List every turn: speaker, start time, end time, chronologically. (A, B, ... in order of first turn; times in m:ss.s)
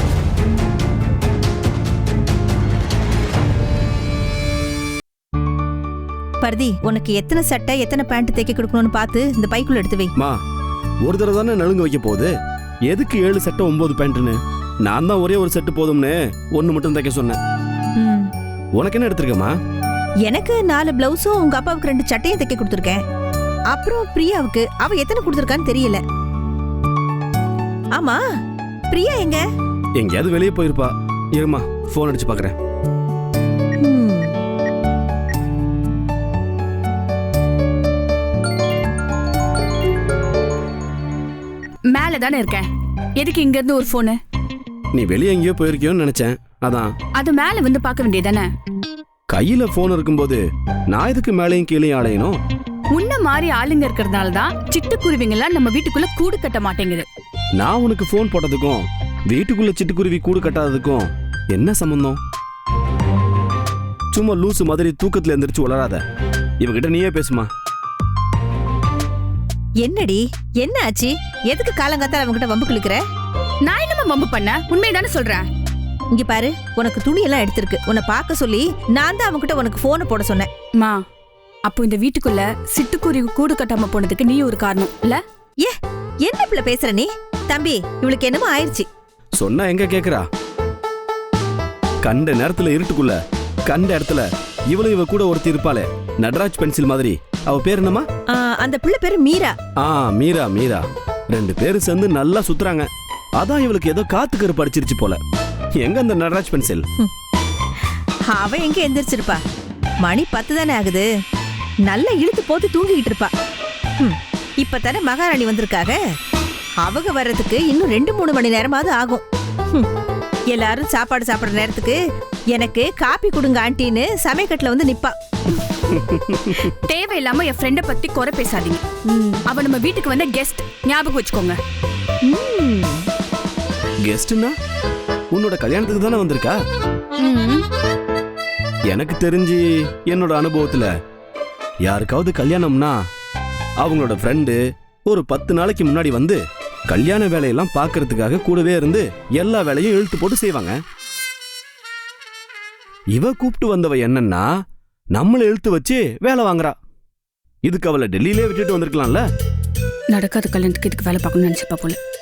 0:06.4-0:10.1 A
0:11.0-0:12.3 B
0:12.9-0:17.4 B
0:18.0-0:18.3 A
0:18.7-0:19.5 B
0:20.2-0:23.0 A
0:23.7-0:26.0 A
0:27.9-0:28.2 A
0:28.9-0:29.4 A
0:30.0-0:32.5 B
0:33.8-0:34.3 A
0:41.9-0:44.2 C
0:44.9-0:46.9 B
0:47.2-0:48.5 C
0:49.3-0:52.4 B
0:52.9-0:57.0 C
0:57.6-1:02.2 B
1:04.1-1:06.0 B
1:06.6-1:07.5 B
1:09.8-1:13.0 A
1:13.6-1:15.4 C
1:16.1-1:20.5 A
1:20.8-1:21.0 C
1:21.7-1:25.2 C
1:25.6-1:28.9 A
1:29.4-1:30.3 B
1:32.0-1:38.0 B
1:38.3-1:39.6 A
1:39.8-1:45.2 B
1:45.8-1:46.8 B
1:48.3-1:49.4 A
1:50.0-1:51.1 A
1:51.8-1:53.3 A
1:54.0-1:56.0 A
1:56.8-1:59.9 A
2:00.5-2:02.0 A
2:02.5-2:05.1 A
2:05.9-2:06.7 B
2:06.8-2:11.6 C
2:12.2-2:13.1 A
2:14.0-2:14.5 B
2:15.3-2:16.6 B
2:17.2-2:17.6 C
2:18.9-2:20.9 B
2:21.8-2:23.0 B
2:23.8-2:30.8 B
2:33.1-2:34.5 B
2:35.1-2:36.8 B
2:37.6-2:39.2 B
2:40.1-2:42.0 C